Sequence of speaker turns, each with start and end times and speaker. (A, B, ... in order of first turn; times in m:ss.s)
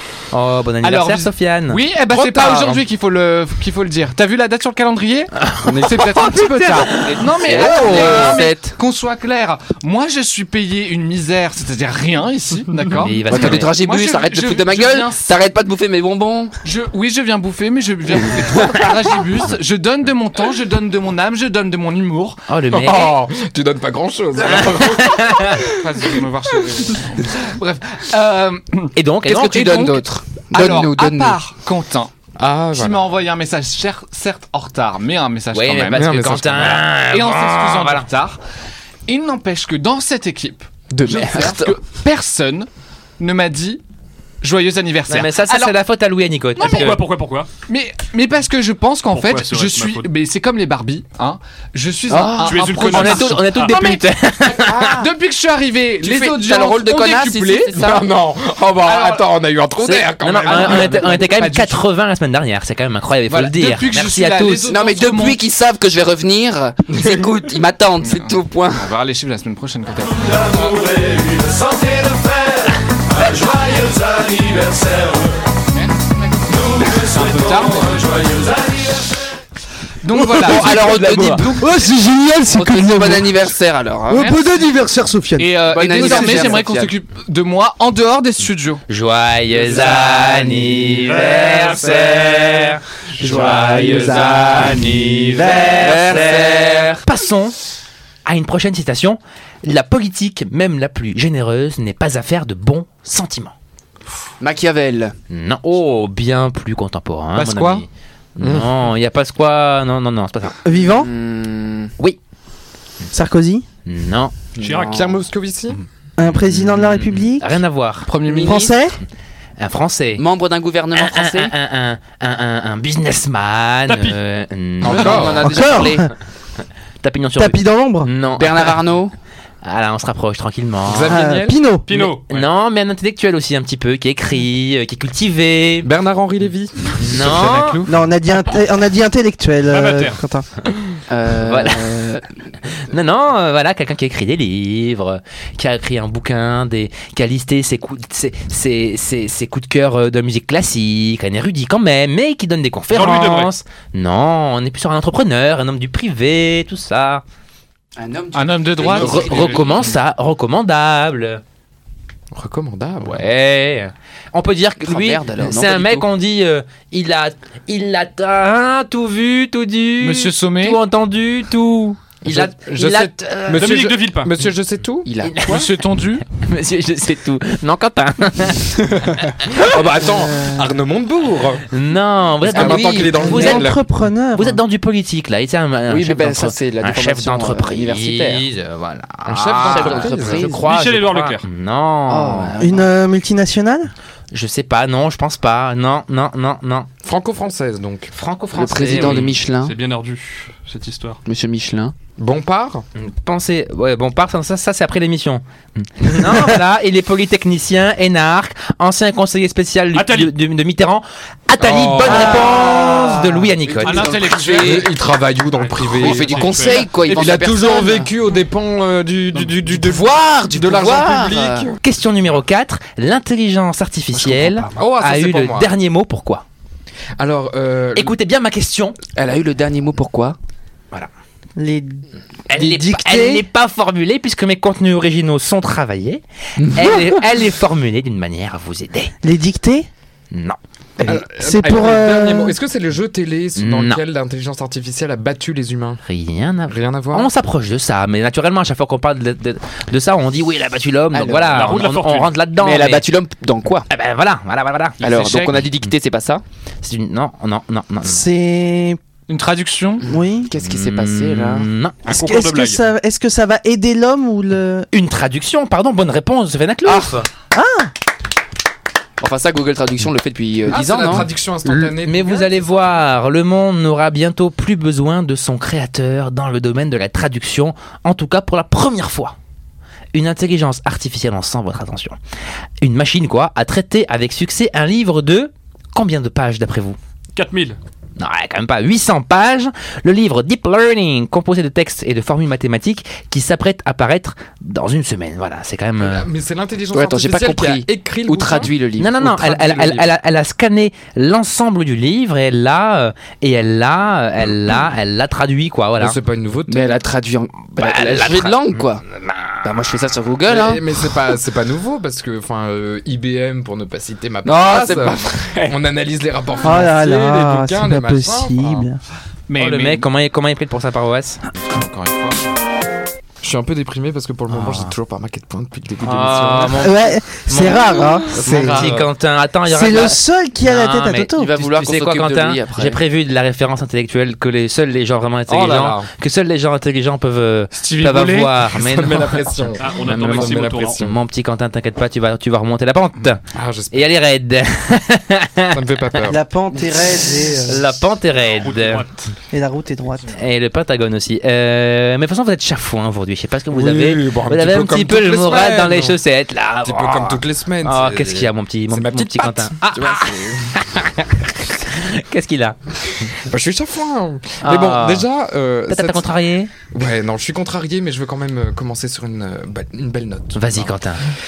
0:00.3-0:01.8 A
0:00.8-0:15.3 B
0:02.1-0:02.8 C
0:05.4-0:08.4 A
0:05.7-0:06.0 C
0:06.7-0:08.8 D
0:13.0-0:13.7 A
0:13.3-0:16.5 D
0:16.6-0:22.4 B
0:22.5-0:23.2 A
0:22.7-0:25.7 C
0:25.0-0:25.6 A
0:25.6-0:28.9 B
0:29.0-0:30.0 A
0:29.2-0:31.4 D
0:30.5-0:32.1 B
0:32.4-0:33.1 C
0:32.7-0:38.4 B
0:35.5-0:38.1 A
0:36.0-0:36.7 C
0:39.1-0:42.7 B
0:40.9-0:41.8 D
0:43.2-0:43.8 B
0:44.4-0:45.8 B
0:45.1-0:47.0 A
0:46.6-0:47.5 E
0:46.6-0:46.9 B
0:47.7-0:54.0 B
0:49.1-0:50.1 E
0:52.1-0:53.0 D
0:52.4-0:53.7 E
0:52.7-0:55.0 A
0:54.6-0:55.1 D
0:54.6-0:57.8 B
0:56.0-0:58.1 D
0:57.7-1:01.3 C
0:58.8-0:59.2 B
0:59.8-1:04.7 A
1:00.5-1:01.8 B
1:03.3-1:05.4 B
1:04.7-1:08.9 D
1:08.0-1:12.6 B
1:13.2-1:15.2 B
1:15.8-1:18.8 B
1:20.0-1:21.4 B
1:20.4-1:21.6 A
1:20.4-1:21.6 D
1:21.4-1:23.3 F
1:22.5-1:24.4 D
1:24.1-1:25.5 F
1:25.4-1:28.8 B
1:25.7-1:26.9 D
1:28.9-1:37.6 A
1:31.2-1:31.8 E
1:33.2-1:35.8 F
1:35.5-1:37.0 D
1:38.3-1:43.5 A
1:44.4-1:45.2 D
1:45.3-1:50.6 A
1:47.4-1:47.8 B
1:48.4-1:48.7 C
1:50.6-1:51.1 F
1:50.9-1:51.9 D
1:53.1-1:53.7 F
1:53.8-1:54.3 A
1:54.6-1:55.2 E
1:54.6-1:55.2 D
1:54.6-1:55.8 C
1:56.2-1:57.6 F
1:56.5-1:58.1 A
1:58.1-1:58.7 B
1:58.2-1:58.7 D
1:58.3-1:59.0 F
1:59.6-2:00.2 A
2:00.2-2:01.5 D
2:01.0-2:05.6 A
2:03.9-2:04.2 E
2:04.8-2:05.5 C
2:04.8-2:06.1 D
2:05.4-2:06.1 F
2:07.0-2:08.8 A
2:07.4-2:08.1 F
2:08.3-2:09.1 D
2:09.6-2:11.2 A
2:10.9-2:11.6 C
2:11.1-2:11.9 F
2:11.9-2:12.4 E
2:11.9-2:15.9 A
2:15.8-2:17.1 C
2:17.0-2:17.8 A
2:17.1-2:17.9 B
2:17.9-2:20.5 F
2:19.7-2:20.2 E
2:21.1-2:22.2 D
2:21.4-2:22.1 A
2:22.9-2:37.2 A
2:32.9-2:33.5 E
2:38.0-2:39.9 D
2:38.3-2:39.7 B
2:38.9-2:41.4 A
2:42.3-2:43.2 C
2:43.0-2:53.8 A
2:44.8-2:46.1 D
2:50.0-2:50.8 B
2:52.3-2:55.1 C
2:53.6-2:54.3 E
2:55.0-2:55.7 D
2:55.2-2:55.7 A
2:55.4-2:56.2 B
2:56.3-2:58.9 A
2:59.1-3:01.7 C
3:01.7-3:03.7 A
3:02.5-3:03.8 C
3:02.5-3:03.6 D
3:03.2-3:04.6 F
3:04.4-3:12.6 A
3:05.9-3:08.4 D
3:09.3-3:10.5 C
3:09.6-3:10.6 D
3:10.6-3:11.5 E
3:12.1-3:12.9 D
3:12.6-3:13.9 F
3:14.3-3:16.9 A
3:17.0-3:18.1 C
3:18.1-3:19.4 A
3:18.5-3:19.8 D
3:19.0-3:21.2 E
3:21.3-3:21.9 D
3:22.2-3:22.8 C
3:23.0-3:34.2 A
3:29.9-3:30.3 E
3:31.6-3:33.1 C
3:32.1-3:32.8 D
3:32.3-3:33.0 F
3:33.7-3:34.9 D
3:33.8-3:34.9 B
3:34.0-3:41.8 C
3:35.8-3:36.9 E
3:36.0-3:38.1 D
3:39.7-3:41.7 D
3:41.8-3:46.4 A
3:44.1-3:44.7 D
3:44.7-3:45.7 C
3:47.2-3:48.1 C
3:48.0-3:49.0 A
3:49.2-3:50.4 D
3:51.6-3:53.4 F
3:52.5-3:59.1 A
3:59.2-3:59.9 F
4:00.3-4:00.6 A
4:01.0-4:02.6 F
4:01.0-4:06.0 C
4:03.6-4:04.0 A
4:06.1-4:13.0 A
4:06.7-4:07.3 C
4:11.1-4:11.7 D
4:11.5-4:12.4 E
4:12.6-4:13.8 D
4:13.9-4:15.0 A
4:15.0-4:16.4 D
4:15.0-4:15.6 B
4:16.8-4:18.2 A
4:18.0-4:19.0 F
4:19.3-4:20.0 B
4:20.0-4:21.7 D
4:20.1-4:20.5 F
4:20.6-4:22.0 A
4:22.1-4:22.8 E
4:22.1-4:24.9 F
4:24.9-4:27.3 A
4:27.5-4:27.9 F
4:29.2-4:31.3 D
4:30.7-4:32.7 C
4:31.6-4:39.4 A
4:40.1-4:42.2 A
4:42.8-4:47.0 A
4:47.4-4:47.8 E
4:48.2-4:56.3 A
4:56.0-5:00.1 C
4:56.9-4:59.2 D
4:59.0-5:06.2 A
5:06.0-5:07.0 C
5:06.7-5:09.0 D
5:07.8-5:09.7 A
5:09.6-5:10.8 D
5:10.5-5:18.9 C
5:14.4-5:15.8 D
5:16.6-5:19.0 F
5:19.5-5:20.0 B
5:19.6-5:21.4 A
5:21.5-5:22.4 B
5:23.4-5:26.9 C
5:24.5-5:24.9 A
5:26.0-5:46.2 A
5:26.8-5:28.9 F
5:28.3-5:29.1 C
5:29.7-5:31.5 F
5:31.3-5:33.0 D
5:35.5-5:36.1 C
5:37.7-5:38.6 B
5:38.7-5:41.2 C
5:39.8-5:41.1 E
5:43.5-5:44.1 C
5:45.7-5:46.4 C
5:46.2-5:48.0 F
5:47.7-5:49.1 A
5:48.5-5:49.3 E
5:49.5-5:50.4 F
5:50.3-6:02.8 A
5:53.7-5:56.2 C
5:56.8-6:00.7 C
6:00.0-6:00.4 D
6:03.5-6:06.3 C
6:04.6-6:05.3 A
6:05.9-6:06.7 A
6:06.9-6:10.9 C
6:10.6-6:11.3 A